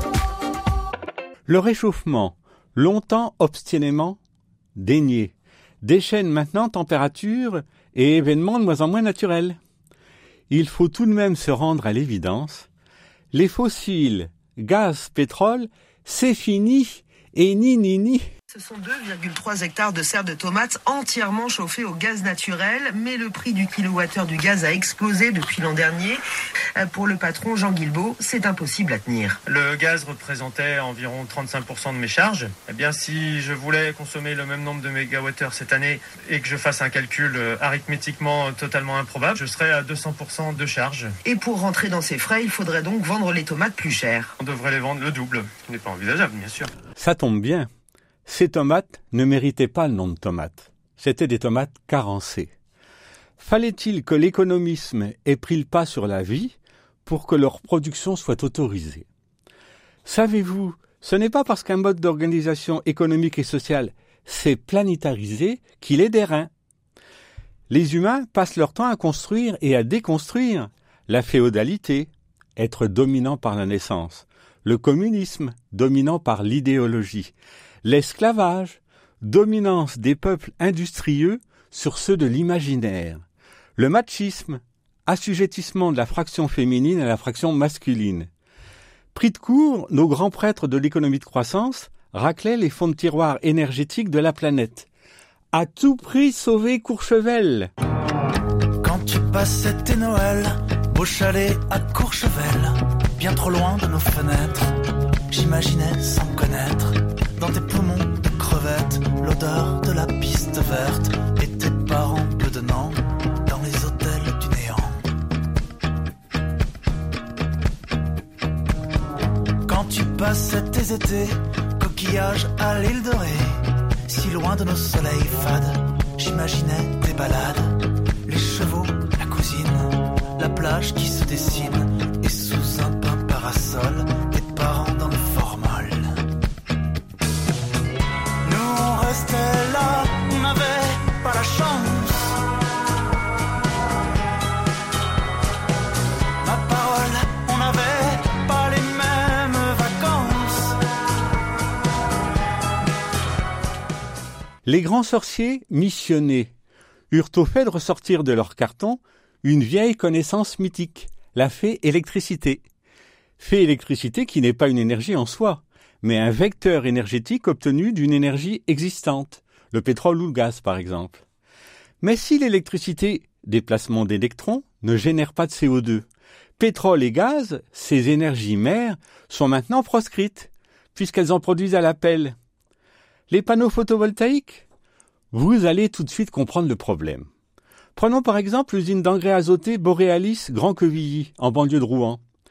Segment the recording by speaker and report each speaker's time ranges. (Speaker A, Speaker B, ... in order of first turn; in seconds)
Speaker A: 1.5-4.2, 4.8-9.6, 10.5-12.7, 13.3-18.3, 47.0-47.7, 48.2-52.5, 53.4-59.0, 60.0-66.5, 67.7-83.2, 83.8-88.3, 89.1-94.9, 95.5-97.7, 154.7-156.5, 157.1-162.6, 163.4-171.2, 172.0-176.1, 176.6-182.4, 183.3-184.7, 185.3-187.3, 187.9-192.2
Speaker B: 18.5-26.2, 26.8-29.4, 41.2-44.4
Speaker C: 29.5-41.1, 44.4-46.7
Speaker D: 98.8-104.8, 105.3-115.0, 119.6-136.2, 138.4-142.4, 146.4-150.8